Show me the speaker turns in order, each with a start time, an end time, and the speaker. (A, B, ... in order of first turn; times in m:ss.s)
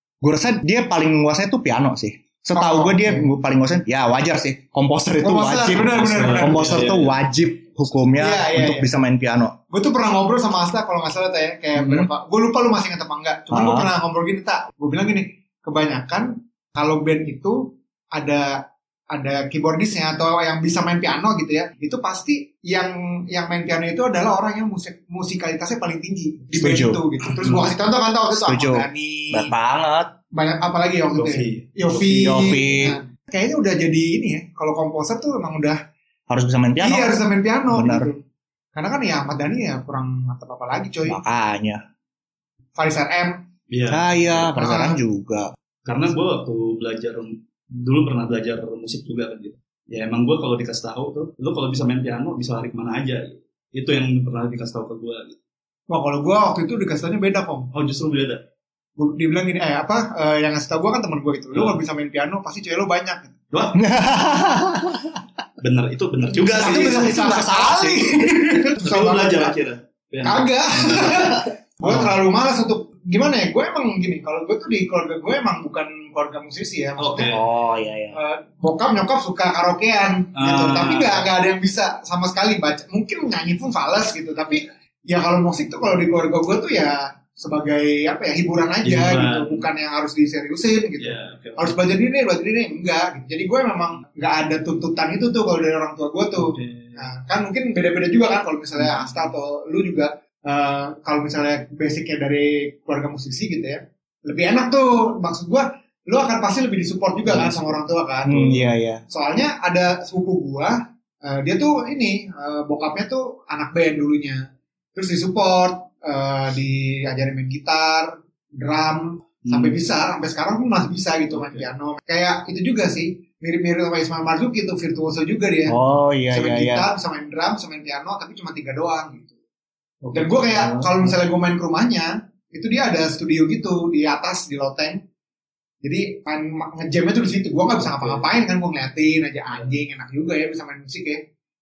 0:00.2-0:09.5 A
0:02.6-0:03.3 B
0:05.2-0:06.9 B
0:06.0-0:07.2 C
0:08.2-0:08.9 B
0:09.7-0:18.6 B
0:11.8-0:12.1 A
0:13.5-0:13.9 A
0:19.1-0:29.5 B
0:26.6-0:27.0 A
0:27.4-0:27.7 C
0:28.4-0:30.1 A
0:30.3-0:35.8 B
0:31.1-0:31.8 C
0:32.0-0:33.0 A
0:36.3-0:38.1 A
0:36.8-0:38.2 B
0:38.7-0:41.2 B
0:41.0-0:41.8 A
0:42.8-0:43.4 B
0:43.7-0:44.5 C
0:43.9-0:45.5 A
0:44.6-0:45.0 B
0:45.8-0:55.4 C
0:55.9-0:57.7 B
0:57.7-0:58.4 C
0:59.0-1:03.4 B
1:01.5-1:01.8 C
1:03.5-1:03.8 C
1:03.7-1:05.2 A
1:05.6-1:07.1 C
1:06.5-1:09.5 B
1:06.5-1:08.4 A
1:08.8-1:11.5 C
1:10.2-1:17.4 B
1:11.8-1:12.1 A
1:17.0-1:17.4 C
1:17.2-1:18.2 A
1:18.1-1:48.5 B
1:20.4-1:21.3 C
1:28.8-1:29.7 C
1:31.0-1:31.8 C
1:36.4-1:37.1 C
1:38.8-1:39.2 C
1:47.2-1:48.6 C
1:48.3-1:49.0 A
1:49.1-2:05.8 B
1:59.4-1:59.8 C
2:01.3-2:01.6 C
2:05.7-2:06.9 A
2:06.3-2:09.3 B
2:10.0-2:10.9 C
2:10.1-2:15.0 B
2:15.8-2:21.2 B
2:17.9-2:18.2 C